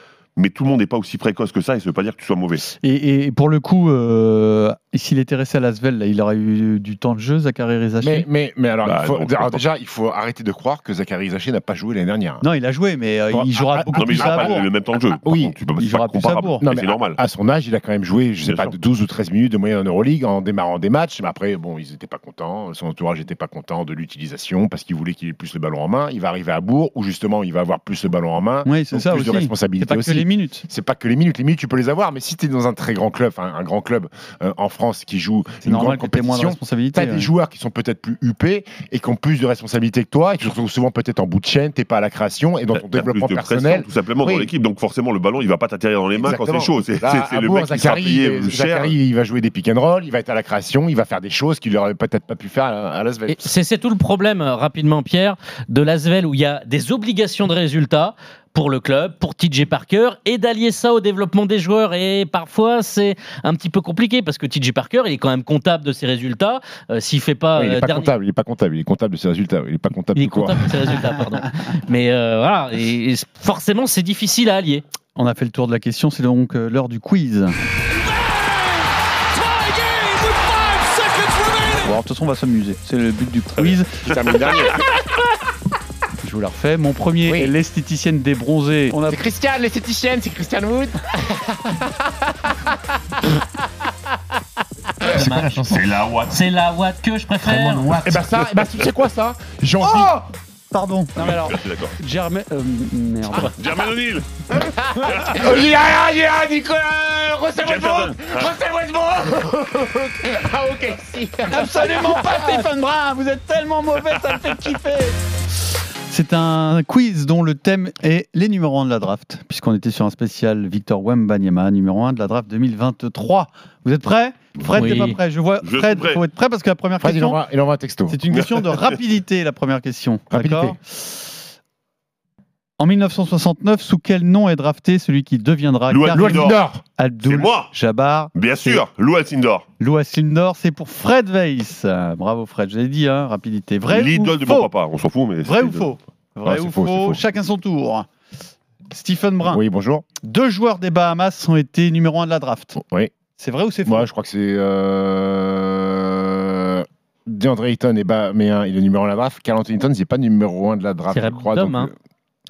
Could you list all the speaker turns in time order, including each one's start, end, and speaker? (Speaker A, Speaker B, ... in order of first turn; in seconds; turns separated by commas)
Speaker A: 0.4-2.6, Speaker B: 2.8-8.3, Speaker C: 8.0-12.4, Speaker A: 8.8-9.6, Speaker B: 12.4-14.7, Speaker C: 13.3-14.6, Speaker A: 13.9-17.2, Speaker C: 15.2-15.6, Speaker B: 15.8-16.6, Speaker C: 16.6-44.5, Speaker A: 18.5-18.7, Speaker B: 28.6-30.6, Speaker B: 35.6-37.3, Speaker A: 42.8-48.9, Speaker C: 46.1-53.5, Speaker D: 53.3-68.1, Speaker C: 67.5-70.7, Speaker D: 70.2-74.8, Speaker B: 75.2-77.6, Speaker B: 81.8-83.9, Speaker C: 84.0-84.8, Speaker A: 84.1-84.8, Speaker B: 86.2-89.2, Speaker C: 87.3-87.5, Speaker C: 89.0-92.5, Speaker C: 95.0-95.8, Speaker D: 95.1-98.1, Speaker C: 97.4-100.3, Speaker B: 99.8-100.2, Speaker B: 100.7-103.5, Speaker A: 101.2-102.0, Speaker A: 103.4-104.3, Speaker C: 104.5-112.7, Speaker A: 105.1-105.7, Speaker A: 107.6-108.5, Speaker B: 111.5-115.2, Speaker B: 116.1-127.4, Speaker D: 124.7-125.2, Speaker A: 125.6-126.2, Speaker C: 127.0-128.2, Speaker B: 128.1-131.1, Speaker C: 130.3-130.8, Speaker B: 132.8-138.8, Speaker A: 135.9-136.6, Speaker C: 136.1-136.8, Speaker A: 137.2-137.7, Speaker A: 138.4-139.7, Speaker B: 139.8-144.7, Speaker A: 143.9-145.9, Speaker B: 145.4-148.1, Speaker C: 146.4-147.2, Speaker B: 148.9-149.6, Speaker C: 149.4-150.1, Speaker B: 150.2-152.8, Speaker C: 152.8-153.1, Speaker B: 153.4-154.1, Speaker C: 153.9-161.9, Speaker D: 161.1-161.9